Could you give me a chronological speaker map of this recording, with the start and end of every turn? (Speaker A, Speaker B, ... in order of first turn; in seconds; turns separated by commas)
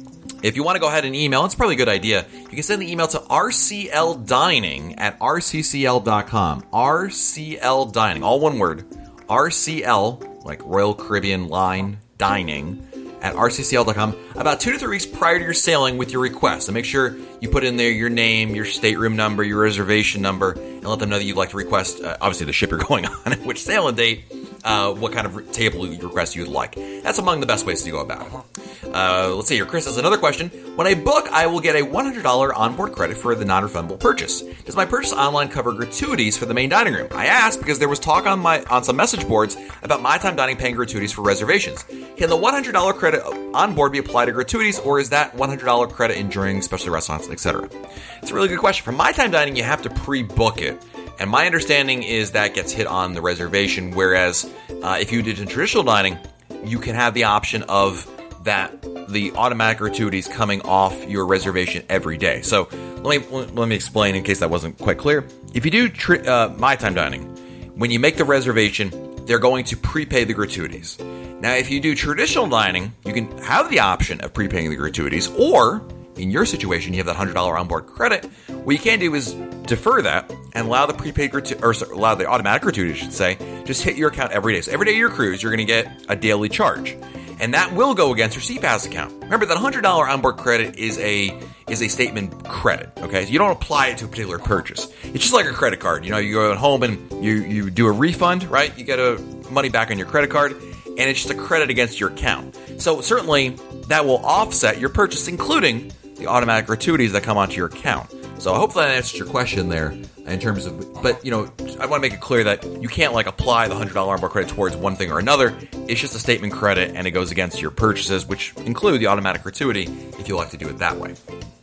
Speaker A: 0.4-121.2